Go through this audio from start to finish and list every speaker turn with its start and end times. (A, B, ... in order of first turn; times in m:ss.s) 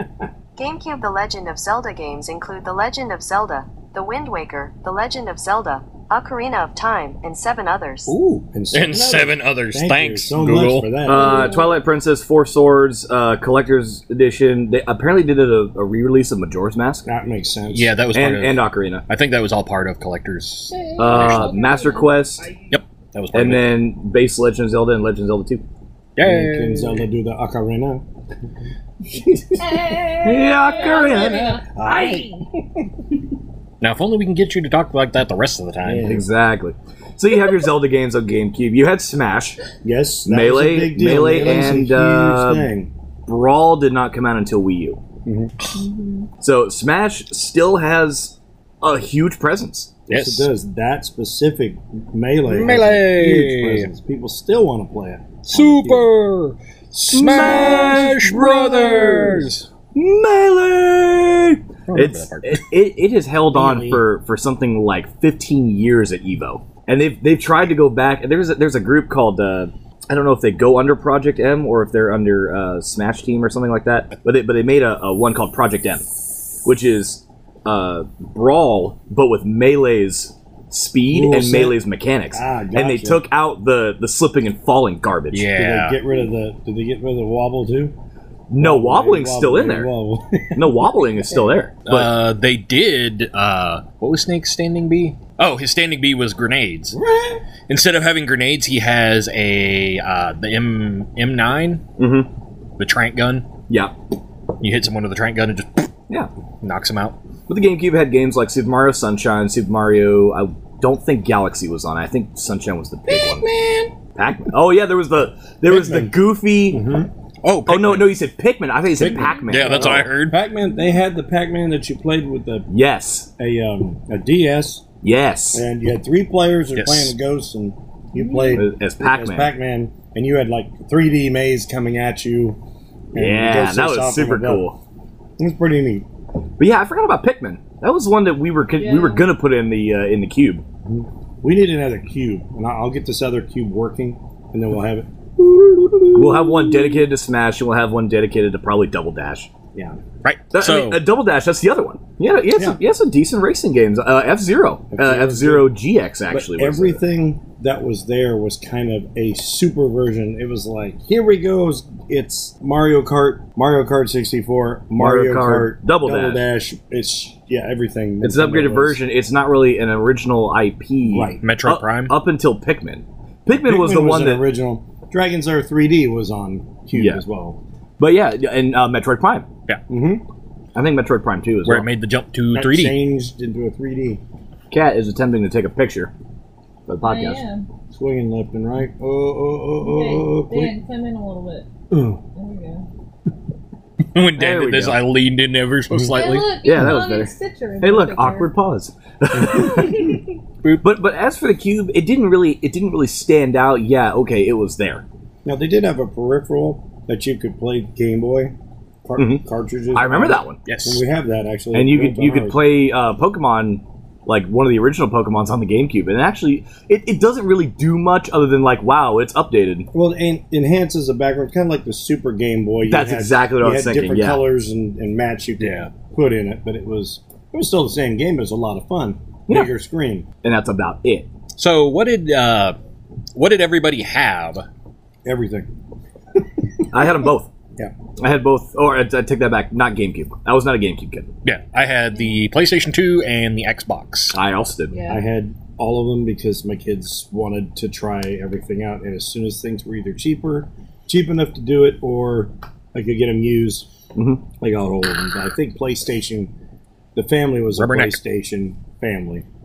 0:00.6-0:08.2 A
0:08.1-0:11.6 B
0:08.7-0:11.0 C
0:11.0-0:17.1 D
0:11.1-0:11.8 E
0:17.1-0:18.0 B
0:17.7-0:21.5 C
0:18.1-0:19.1 D
0:20.7-0:22.4 E
0:21.0-0:22.5 D
0:22.7-0:23.8 C
0:23.3-0:25.6 D
0:26.2-0:27.1 C
0:26.2-0:28.0 B
0:29.0-0:30.3 B
0:29.6-0:32.4 E
0:30.2-0:31.6 D
0:30.8-0:32.9 B
0:33.8-0:36.1 C
0:35.8-0:36.3 B
0:36.0-0:39.6 D
0:39.8-0:42.9 B
0:40.3-0:42.7 D
0:43.3-0:45.0 D
0:45.2-0:45.5 B
0:45.8-0:46.3 E
0:46.4-0:50.0 D
0:50.1-0:56.1 B
0:50.1-0:50.5 C
0:52.5-0:53.9 C
0:55.5-0:59.7 C
0:57.1-1:16.1 D
0:57.4-0:58.0 B
1:01.9-1:02.7 C
1:03.5-1:04.0 B
1:16.6-1:25.5 D
1:21.1-1:21.8 B
1:22.3-1:23.2 B
1:25.3-1:26.0 C
1:25.6-1:28.0 B
1:28.5-1:29.9 D
1:28.6-1:30.9 B
1:30.6-1:32.1 D
1:31.9-1:37.0 C
1:36.9-1:37.4 B
1:37.7-1:41.8 C
1:42.0-1:42.3 D
1:42.8-1:43.5 C
1:44.6-1:45.9 C
1:46.6-1:47.2 C
1:47.5-1:53.5 D
1:53.1-1:53.9 C
1:54.2-1:56.8 D
1:55.7-1:56.2 B
1:56.7-1:57.1 B
1:57.4-1:58.2 C
1:57.7-2:00.1 D
1:59.0-2:02.7 B
1:59.1-1:59.4 E
1:59.5-2:00.4 C
2:02.7-2:03.3 D
2:03.4-2:04.8 B
2:05.0-2:05.6 D
2:05.5-2:12.6 B
2:06.8-2:07.1 C
2:08.2-2:08.6 E
2:08.5-2:09.5 D
2:13.1-2:14.7 B
2:13.1-2:14.8 D
2:15.4-2:16.1 B
2:16.6-2:20.6 D
2:18.8-2:19.3 E
2:20.9-2:27.0 B
2:26.1-2:29.5 D
2:29.7-2:30.0 B
2:30.2-2:31.0 C
2:30.5-2:37.0 D
2:34.9-2:35.7 B
2:36.3-2:49.0 B
2:45.0-2:46.4 D
2:48.2-2:54.4 D
2:51.1-2:51.5 B
2:51.4-2:52.2 C
2:53.6-2:57.6 B
2:56.9-2:57.2 D
2:58.0-2:59.5 D
2:59.9-3:00.2 B
3:00.8-3:01.9 D
3:01.6-3:03.0 C
3:02.5-3:04.2 B
3:04.7-3:06.1 D
3:06.9-3:07.4 D
3:07.0-3:07.7 E
3:07.9-3:10.7 B
3:09.8-3:11.7 E
3:12.3-3:12.8 E
3:14.1-3:16.6 C
3:14.4-3:15.0 D
3:16.1-3:18.5 E
3:16.6-3:20.2 D
3:19.6-3:19.8 B
3:20.8-3:25.0 D
3:25.4-3:32.6 B
3:29.2-3:29.4 D
3:29.9-3:30.6 D
3:30.7-3:31.0 C
3:31.7-3:39.9 D
3:39.9-3:50.3 B
3:42.9-3:44.4 D
3:45.6-3:45.9 C
3:50.4-3:51.3 D
3:51.6-3:52.8 C
3:53.4-3:54.6 C
3:55.2-3:55.7 B
3:56.4-3:56.8 B
3:56.9-3:57.5 D
3:58.2-4:01.3 D
4:01.4-4:04.4 C
4:04.3-4:05.0 D
4:04.9-4:05.2 E
4:05.1-4:13.9 B
4:14.2-4:14.4 D
4:14.6-4:16.5 B
4:17.2-4:19.5 B
4:17.8-4:18.2 C